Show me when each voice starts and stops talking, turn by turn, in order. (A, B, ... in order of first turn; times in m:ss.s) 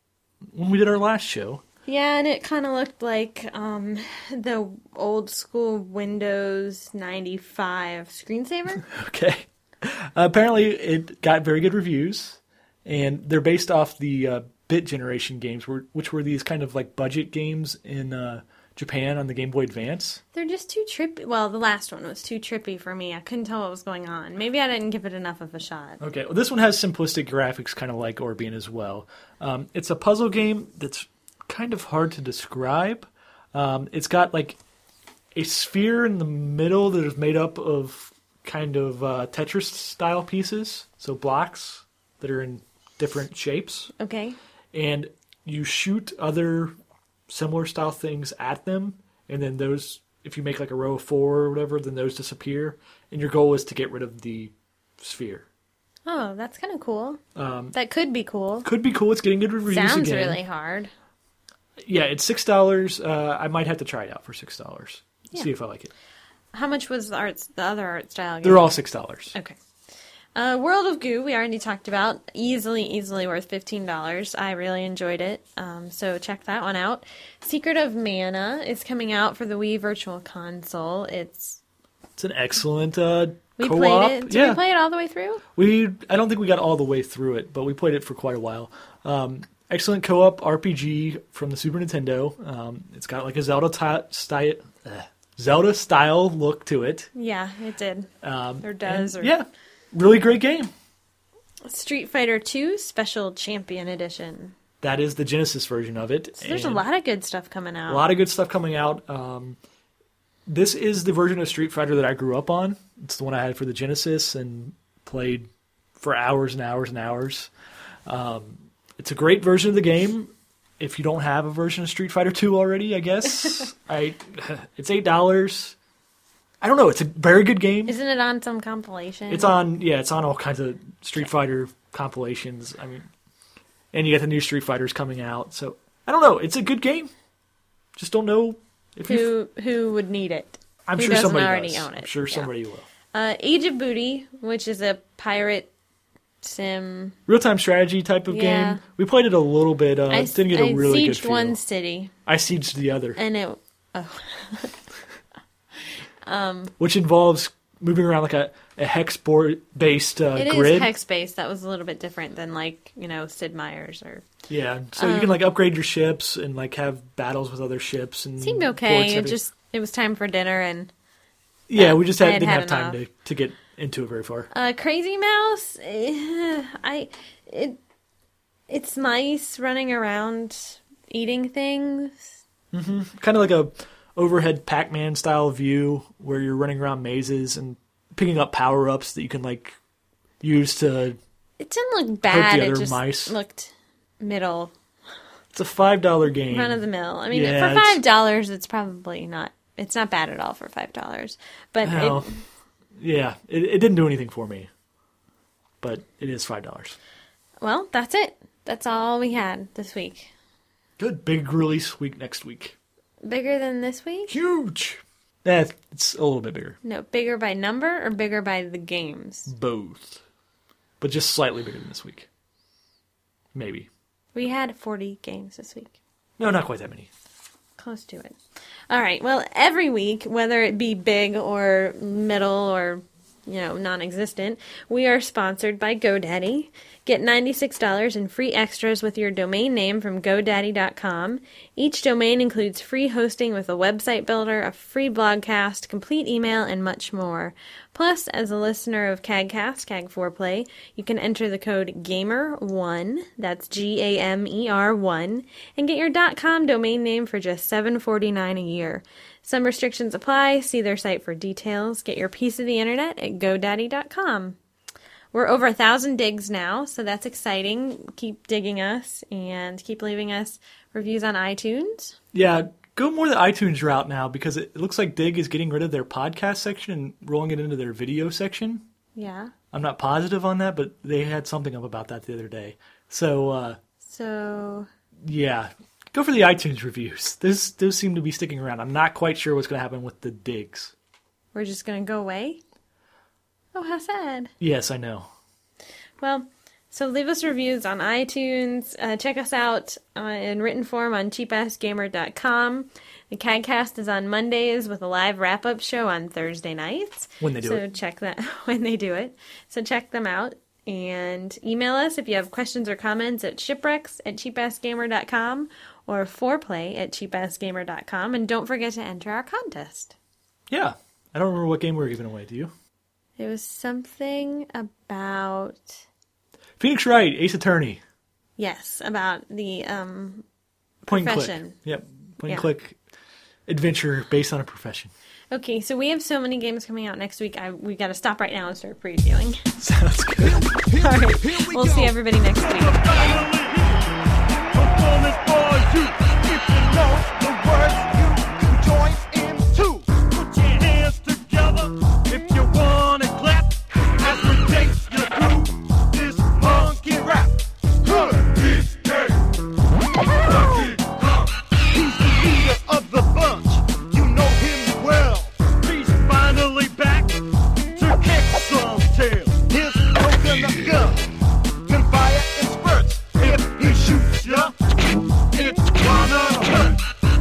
0:00.5-0:01.6 A
0:01.9-0:08.8 B
0:08.8-0:20.2 A
0:20.3-0:26.0 B
0:26.0-0:34.6 A
0:35.4-0:43.9 A
0:44.0-0:44.4 B
0:44.7-0:46.7 A
0:47.3-0:55.4 A
0:56.1-0:57.2 B
0:57.4-0:57.8 A
0:57.7-0:58.7 B
0:58.6-1:00.4 A
0:59.7-1:00.9 B
1:01.8-1:05.9 A
1:06.5-1:08.7 B
1:08.4-1:09.4 A
1:10.4-1:21.6 B
1:22.2-1:24.6 A
1:23.6-1:25.4 B
1:25.6-1:37.1 A
1:37.1-1:38.1 B
1:38.2-1:40.7 A
1:38.6-1:39.4 B
1:41.7-1:44.6 B
1:44.8-1:46.8 A
1:46.4-1:48.1 B
1:47.9-1:49.6 A
1:50.5-1:57.5 A
1:58.1-2:05.8 A
2:06.6-2:08.0 A
2:07.9-2:09.5 B
2:09.3-2:13.1 A
2:13.9-2:17.1 A
2:18.0-2:19.3 A
2:19.1-2:22.5 B
2:20.9-2:22.9 A
2:23.1-2:25.7 B
2:26.4-2:27.2 B
2:27.3-2:31.6 A
2:28.3-2:28.8 B
2:30.1-2:32.1 B
2:32.3-2:33.2 A
2:33.2-2:34.8 B
2:36.2-2:36.7 B
2:36.8-2:40.9 A
2:40.4-2:44.3 B
2:44.5-2:49.4 A
2:45.0-2:45.4 B
2:48.4-2:50.9 B
2:51.7-2:54.5 A
2:51.8-2:53.0 B
2:54.5-2:57.8 B
2:58.7-3:02.3 B
3:02.7-3:09.8 A
3:10.4-3:11.2 A
3:11.6-3:14.7 B
3:12.3-3:13.3 A
3:15.5-3:18.0 A
3:16.5-3:22.4 B
3:21.8-3:22.3 A
3:23.0-3:24.7 A
3:25.8-3:27.0 A
3:27.6-3:30.3 B
3:31.0-3:32.8 A
3:33.2-3:34.4 B
3:34.3-3:36.8 A
3:36.8-3:39.5 B
3:39.5-3:40.2 A
3:41.0-3:42.3 A
3:43.6-3:43.9 A
3:44.4-3:46.0 B
3:46.4-3:47.1 A
3:47.8-3:48.4 B
3:48.9-4:24.6 B
4:25.3-4:32.2 B
4:32.3-4:38.8 A
4:39.2-4:39.5 B
4:39.7-4:43.8 A
4:44.0-4:44.9 B
4:45.2-4:50.9 A
4:51.5-4:52.6 B
4:53.7-4:54.5 B
4:54.6-4:55.3 A
4:56.2-5:20.2 B
5:07.4-5:07.8 A
5:20.7-5:22.7 A
5:23.4-5:26.0 B
5:26.8-5:28.0 A
5:28.6-5:30.4 B
5:31.0-5:33.0 A
5:31.1-5:31.8 B
5:33.7-5:35.1 A
5:35.5-5:39.6 B
5:39.8-5:40.7 A
5:40.4-5:59.5 C
5:41.0-5:43.3 B
6:00.4-6:11.2 C
6:11.9-6:14.7 C
6:15.5-6:17.0 C